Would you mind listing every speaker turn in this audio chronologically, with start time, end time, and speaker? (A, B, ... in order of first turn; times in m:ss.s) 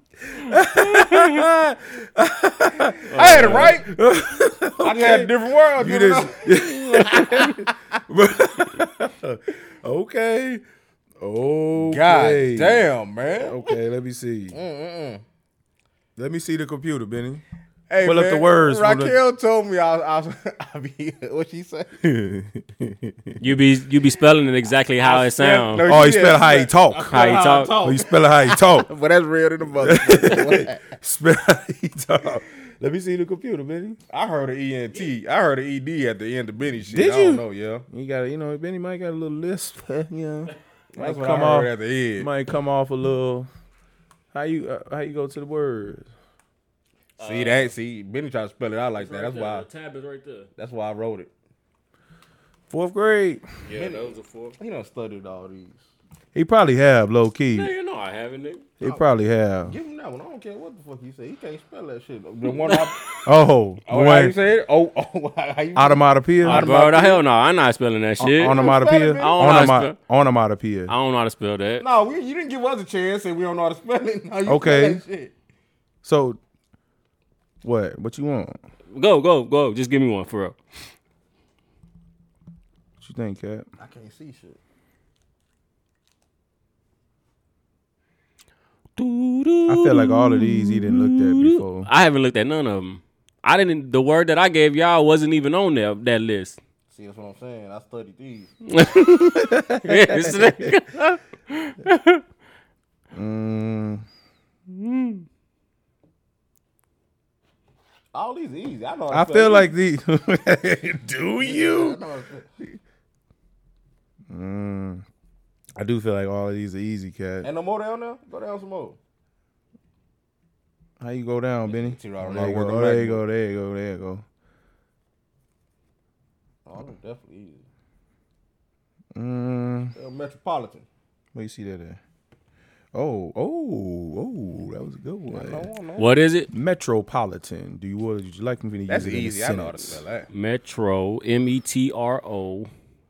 0:00.4-0:10.6 A
0:00.8-0:01.4 B
0:03.1-0:03.8 B
0:03.1-0:03.9 C
0:04.8-0:06.6 C
0:07.2-0:07.5 B
0:11.2-0:12.8 A
0:11.8-0:13.6 C
0:13.4-0:14.6 A
0:14.5-0:15.2 C
0:16.2-0:17.4 A
0:17.9-0:22.0 C
0:18.0-0:19.2 A
0:22.0-0:23.1 A
0:23.4-0:25.9 B
0:25.0-0:31.0 C
0:25.8-0:28.9 A
0:27.1-0:27.8 B
0:29.8-0:34.0 A
0:34.1-0:37.8 C
0:36.9-0:43.5 A
0:40.9-0:42.3 C
0:44.3-0:46.1 A
0:47.2-0:47.7 B
0:47.2-0:49.7 C
0:49.0-0:50.5 B
0:50.6-0:51.3 C
0:52.7-0:53.4 A
0:53.7-0:54.6 B
0:53.7-0:54.0 C
0:54.6-0:55.8 C
0:56.3-0:57.7 A
0:57.5-0:58.7 B
0:58.8-0:59.8 A
0:59.7-1:03.0 C
1:03.2-1:04.4 A
1:03.9-1:07.2 C
1:05.8-1:06.6 A
1:06.4-1:10.0 B
1:08.2-1:10.9 A
1:08.4-1:09.7 C
1:10.9-1:11.8 B
1:11.8-1:15.3 C
1:14.4-1:15.0 A
1:16.0-1:16.4 A
1:17.6-1:18.6 A
1:18.9-1:20.6 B
1:23.0-1:23.7 A
1:23.8-1:24.6 C
1:29.0-1:36.6 B
1:29.7-1:31.9 A
1:36.9-1:38.6 C
1:38.7-1:42.2 B
1:39.1-1:40.7 A
1:43.1-1:44.0 A
1:44.7-1:45.2 B
1:48.1-1:49.7 C
1:49.1-1:52.0 A
1:51.4-1:52.5 C
1:54.3-1:55.0 A
1:55.8-1:57.5 A
1:57.4-1:59.0 C
2:01.0-2:04.2 A
2:01.7-2:03.2 C
2:06.7-2:07.6 C
2:09.2-2:09.9 A
2:10.0-2:10.8 C
2:11.4-2:12.0 A
2:12.9-2:15.7 A
2:15.3-2:16.1 C
2:16.0-2:16.5 B
2:16.5-2:20.0 A
2:18.9-2:20.3 C
2:20.3-2:22.7 B